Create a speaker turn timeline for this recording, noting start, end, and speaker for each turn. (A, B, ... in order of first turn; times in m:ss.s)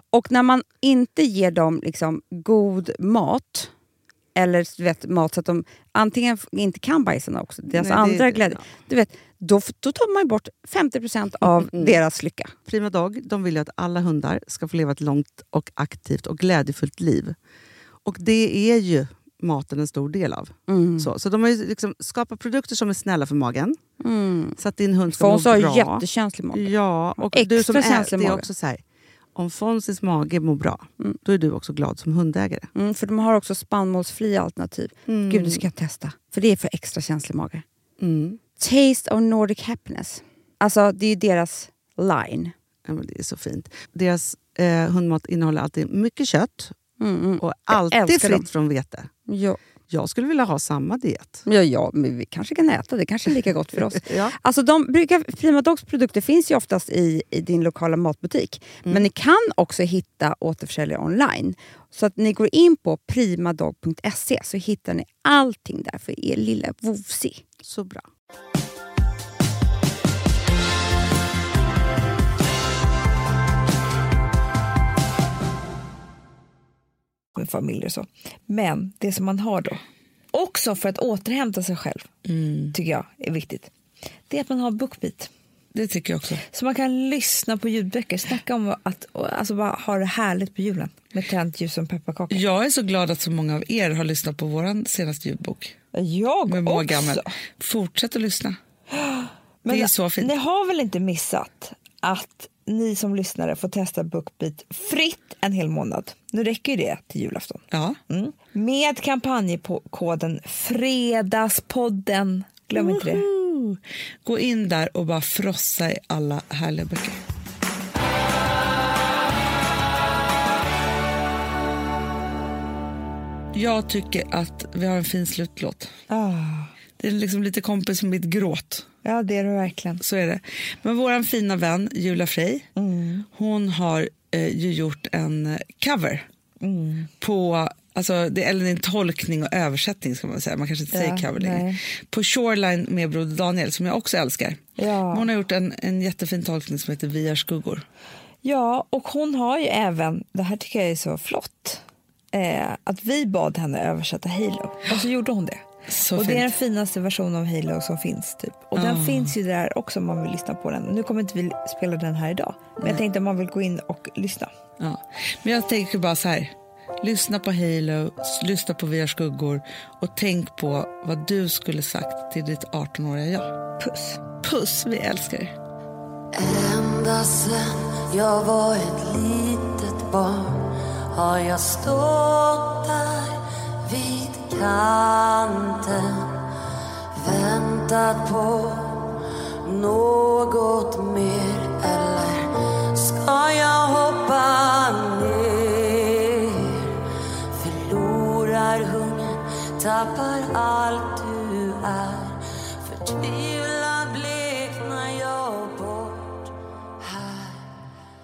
0:00.1-0:03.7 A
0:04.4-0:12.5 A
0:07.7-0:08.6 B
0:11.6-0:12.0 B
0:12.7-0:17.4 B
0:18.0-0:23.8 B
0:20.7-0:21.1 A
0:24.0-0:24.6 A
0:24.6-0:28.8 B
0:25.2-0:28.5 A
0:29.3-0:32.7 B
0:32.7-0:37.6 A
0:35.1-0:35.6 B
0:38.0-0:38.4 B
0:38.6-0:42.5 A
0:42.9-0:46.7 B
0:47.0-0:48.4 A
0:47.4-0:49.1 B
0:49.3-0:49.6 A
0:49.9-0:51.4 B
0:51.4-1:07.4 A
0:53.9-0:54.3 B
1:07.6-1:08.0 B
1:17.4-1:22.1 C
1:22.2-1:22.7 D
1:22.7-1:23.7 C
1:24.3-1:25.3 C
1:25.7-1:26.4 D
1:26.4-1:32.4 C
1:32.3-1:35.8 D
1:35.9-1:37.3 C
1:36.5-1:38.6 D
1:38.9-1:53.3 C
1:39.7-1:40.3 D
1:47.7-1:48.0 D
1:52.7-1:57.2 D
2:03.5-2:05.9 D
2:06.1-2:06.7 C
2:07.0-2:08.9 D
2:09.0-2:10.0 C
2:10.0-2:12.7 D
2:12.7-2:13.2 C
2:13.3-2:16.2 D
2:16.6-2:17.1 C
2:17.2-2:27.8 D
2:20.9-2:21.8 C
2:24.8-2:25.3 C
2:28.4-2:44.5 C
2:35.9-2:36.5 D
2:38.8-2:39.3 D
2:44.8-2:53.6 D
2:53.8-2:54.2 C
2:54.4-2:55.6 D
2:56.3-3:06.5 E
3:07.2-3:27.7 E